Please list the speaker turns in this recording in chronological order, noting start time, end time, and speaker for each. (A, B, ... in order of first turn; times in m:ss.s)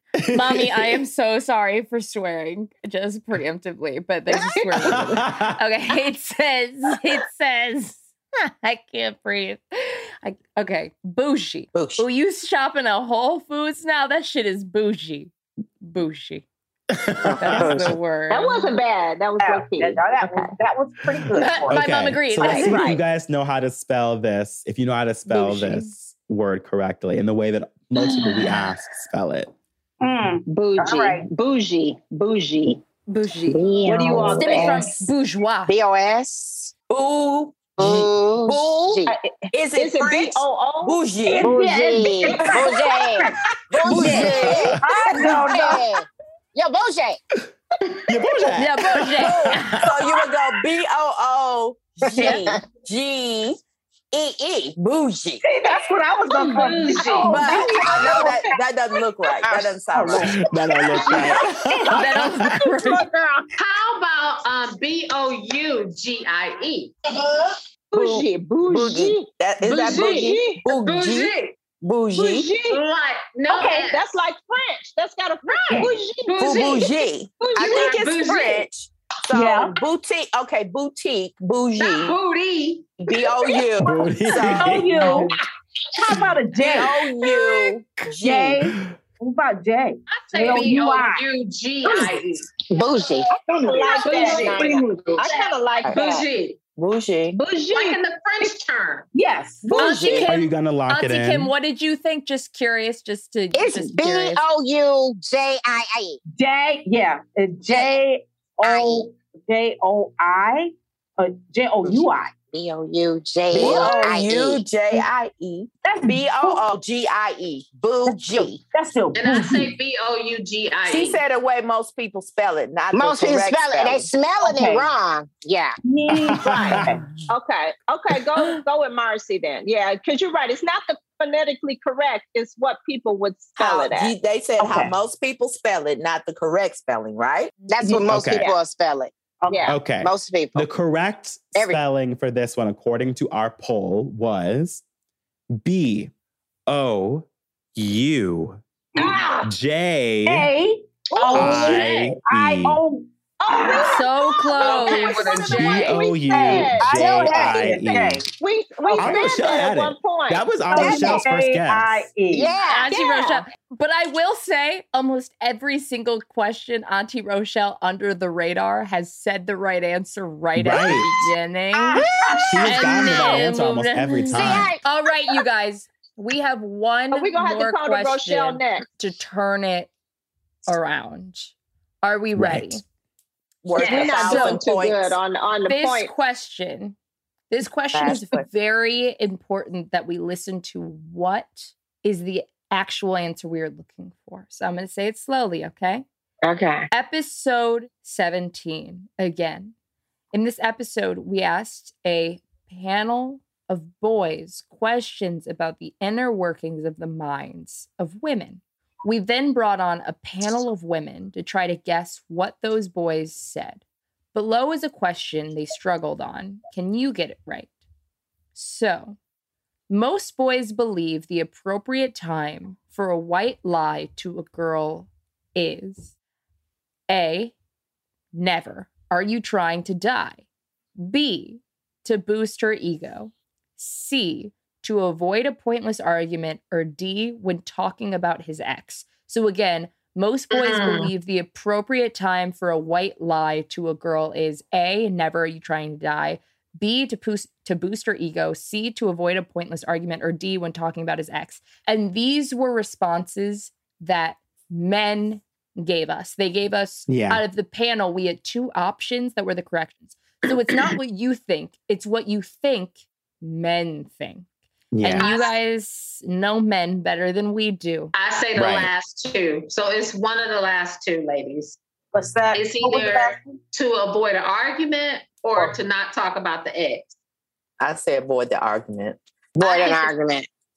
0:00.2-0:01.0 A
0:00.3-0:16.5 B
0:04.6-0:04.9 C
0:04.8-0:05.6 A
0:11.8-0:12.1 D
0:16.9-0:18.0 A
0:17.3-0:18.0 D
0:17.4-0:18.8 B
0:18.3-0:20.6 C
0:19.4-0:21.9 E
0:21.4-0:22.7 B
0:21.7-0:29.5 A
0:22.4-0:23.0 D
0:22.5-0:22.8 C
0:25.3-0:25.9 B
0:30.0-0:31.3 E
0:30.5-0:32.8 C
0:33.1-0:33.7 B
0:33.5-0:34.9 F
0:33.8-0:35.0 C
0:34.3-0:35.7 B
0:35.7-0:36.7 F
0:36.9-0:39.0 D
0:37.8-0:39.1 F
0:39.1-0:41.5 C
0:39.5-0:41.6 D
0:41.2-0:46.0 E
0:41.4-0:47.2 F
0:43.9-0:44.8 A
0:48.0-0:50.0 A
0:48.6-0:49.8 B
0:49.2-0:53.6 D
0:52.0-0:52.6 F
0:54.1-0:55.4 D
0:55.4-0:58.5 E
0:56.4-0:58.3 G
0:57.0-0:58.5 C
0:57.3-1:00.4 D
0:59.4-1:00.4 F
1:00.0-1:00.2 E
1:00.1-1:02.6 A
1:00.9-1:01.4 C
1:01.1-1:01.3 G
1:01.9-1:03.1 B
1:02.7-1:03.4 F
1:03.6-1:07.0 G
1:07.9-1:10.6 C
1:07.9-1:12.5 D
1:09.6-1:11.6 G
1:12.1-1:12.8 C
1:12.7-1:14.0 G
1:13.5-1:16.6 C
1:13.5-1:13.9 E
1:15.5-1:17.0 G
1:16.4-1:22.2 D
1:17.4-1:17.9 C
1:17.6-1:18.7 G
1:19.3-1:19.8 E
1:21.8-1:23.0 G
1:23.0-1:24.9 D
1:23.8-1:25.4 A
1:24.4-1:25.4 E
1:26.0-1:27.1 E
1:26.6-1:28.6 D
1:28.1-1:31.3 E
1:30.1-1:32.5 G
1:31.8-1:32.2 E
1:32.7-1:33.4 F
1:33.4-1:36.2 C
1:33.4-1:34.7 E
1:34.0-1:36.6 G
1:34.3-1:34.6 F
1:36.8-1:37.4 D
1:37.3-1:38.5 C
1:37.7-1:39.1 G
1:39.1-1:39.9 E
1:39.7-1:40.2 D
1:39.7-1:44.4 B
1:39.8-1:40.3 C
1:40.2-1:41.5 A
1:43.5-1:46.2 F
1:46.3-1:52.3 E
1:47.7-1:48.0 F
1:48.6-1:49.1 F
1:51.8-1:54.6 F
1:53.5-1:58.6 D
1:53.6-1:53.9 E
1:55.8-1:56.6 E
1:58.1-1:59.7 E
1:59.1-2:01.2 G
2:00.9-2:04.1 D
2:02.9-2:05.8 F
2:04.4-2:04.9 E
2:05.8-2:07.1 E
2:06.4-2:06.9 D
2:06.4-2:06.8 A
2:07.3-2:14.1 C
2:13.6-2:17.5 D
2:14.6-2:14.9 E
2:17.7-2:19.1 F
2:17.8-2:18.1 E
2:17.8-2:18.6 C
2:18.1-2:18.5 A
2:19.4-2:19.8 E
2:19.5-2:19.8 C
2:19.7-2:24.8 A
2:19.8-2:20.7 F
2:25.6-2:26.1 A
2:26.7-2:28.6 A
2:29.0-2:29.4 E
2:29.4-2:30.5 A
2:30.2-2:34.0 E
2:31.2-2:31.8 C
2:31.2-2:32.2 G
2:31.3-2:32.8 A
2:33.4-2:37.0 C
2:33.9-2:35.2 B
2:34.6-2:36.1 G
2:34.6-2:38.3 E
2:35.5-2:38.2 A
2:37.0-2:38.0 F
2:38.2-2:40.6 C
2:38.8-2:39.5 E
2:39.0-2:42.1 A
2:40.7-2:42.6 E
2:40.7-2:41.3 F
2:42.3-2:42.9 F
2:42.6-2:52.1 B
2:42.9-2:43.4 C
2:50.6-2:51.1 A
2:51.8-2:53.4 F
2:52.2-2:52.6 E
2:52.5-2:54.8 A
2:52.6-2:59.9 B
2:54.3-2:54.8 F
2:57.1-2:58.8 C
3:00.7-3:02.8 B
3:02.4-3:02.8 A
3:03.6-3:05.2 D
3:03.8-3:04.4 G
3:03.8-3:06.1 C
3:04.2-3:04.6 B
3:05.7-3:07.0 B
3:07.5-3:16.0 B
3:07.9-3:08.5 D
3:16.4-3:16.9 F
3:16.9-3:19.7 B
3:20.3-3:33.8 B
3:34.3-3:37.7 B
3:38.6-3:39.2 B
3:39.9-3:46.1 B
3:47.1-3:47.5 B
3:48.3-3:50.4 B
3:51.0-4:24.5 B
4:00.5-4:01.1 G
4:17.1-4:17.4 A
4:24.9-4:25.3 A
4:25.0-4:28.1 B
4:25.2-4:25.5 G
4:28.1-4:31.8 G
4:28.6-4:28.9 A
4:32.1-4:33.6 E
4:32.5-4:37.1 G
4:37.8-4:39.2 D
4:39.6-4:40.5 F
4:39.6-4:40.1 G